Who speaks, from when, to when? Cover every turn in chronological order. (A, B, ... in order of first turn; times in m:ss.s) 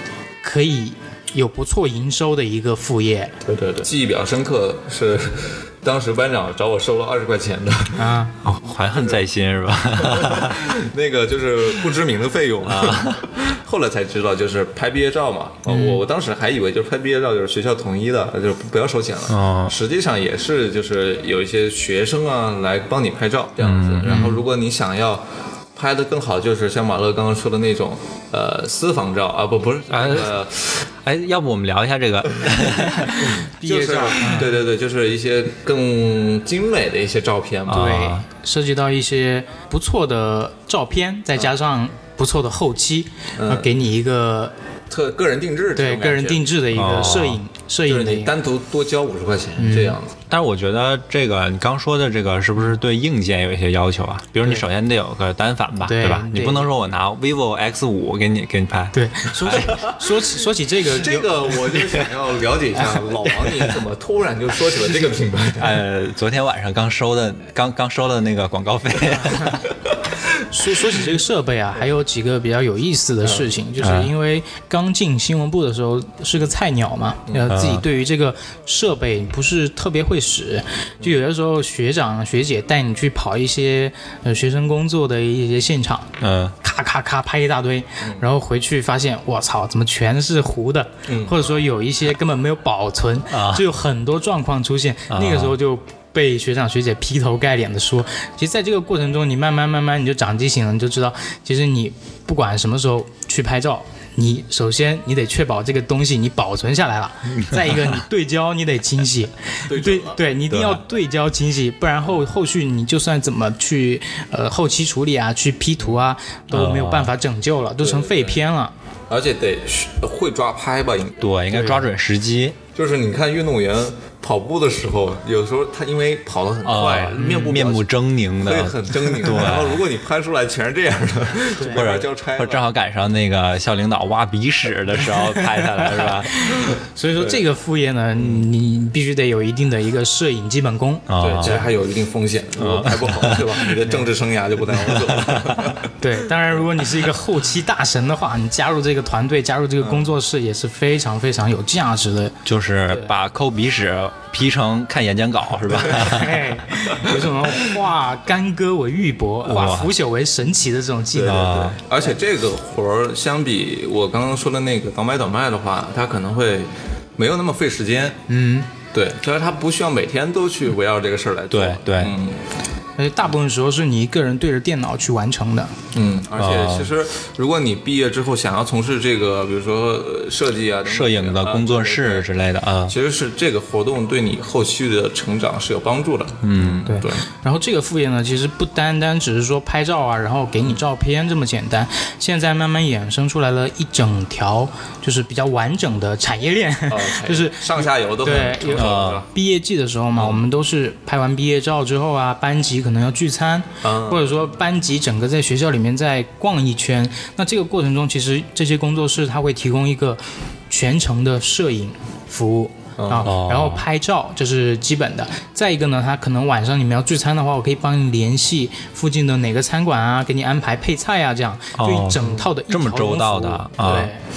0:00.4-0:03.3 A
0:03.4-0:08.2 B
0:08.0-0:08.3 A
0:08.4-0:10.6 C
0:08.9-0:09.2 B
0:10.0-0:25.2 B
0:12.6-0:13.3 C
0:15.7-0:16.0 A
0:19.3-0:19.7 C
0:23.6-0:24.3 C
0:24.0-0:24.4 A
0:25.8-0:30.8 B
0:29.9-0:30.4 C
0:31.0-0:33.3 C
0:33.0-0:34.5 A
0:33.2-0:38.0 B
0:37.7-0:38.2 C
0:37.7-0:44.5 A
0:43.4-0:43.7 B
0:44.9-0:46.4 B
0:45.8-0:48.3 A
0:46.7-0:47.4 C
0:47.9-0:50.2 B
0:49.6-0:50.0 A
0:50.3-0:59.9 C
0:55.8-0:56.7 A
0:58.9-1:01.6 A
1:00.9-1:05.8 B
1:05.6-1:09.7 C
1:10.4-1:26.1 A
1:13.8-1:14.1 C
1:17.5-1:17.8 C
1:26.2-1:26.6 C
1:26.6-1:58.7 A
1:31.1-1:31.3 B
1:33.3-1:33.6 C
1:35.1-1:35.6 C
1:47.3-1:48.0 C
1:49.7-1:50.2 B
1:50.5-1:50.8 C
1:56.5-1:57.1 C
1:57.8-1:58.4 B
1:59.1-2:01.8 B
2:01.2-2:02.6 C
2:02.7-2:12.6 B
2:06.6-2:09.8 C
2:07.2-2:07.6 A
2:11.5-2:11.8 A
2:11.7-2:16.5 C
2:15.2-2:21.7 A
2:21.1-2:21.6 C
2:21.2-2:25.9 B
2:22.6-2:23.6 C
2:24.9-2:25.7 C
2:26.0-2:33.1 A
2:32.4-2:36.4 C
2:35.9-2:41.5 A
2:39.4-2:39.9 C
2:41.1-2:48.2 B
2:41.2-2:41.8 C
2:48.3-2:48.7 A
2:48.9-2:52.4 B
2:51.5-2:52.2 C
2:53.0-2:55.7 A
2:55.9-3:02.3 B
2:56.4-2:56.9 C
3:00.8-3:02.9 C
3:02.9-3:07.2 B
3:06.4-3:06.9 C
3:06.9-3:44.2 A
3:16.9-3:19.2 B
3:18.8-3:19.2 C
3:23.8-3:24.3 B
3:33.0-3:33.3 B
3:33.2-3:33.8 C
3:41.8-3:44.1 C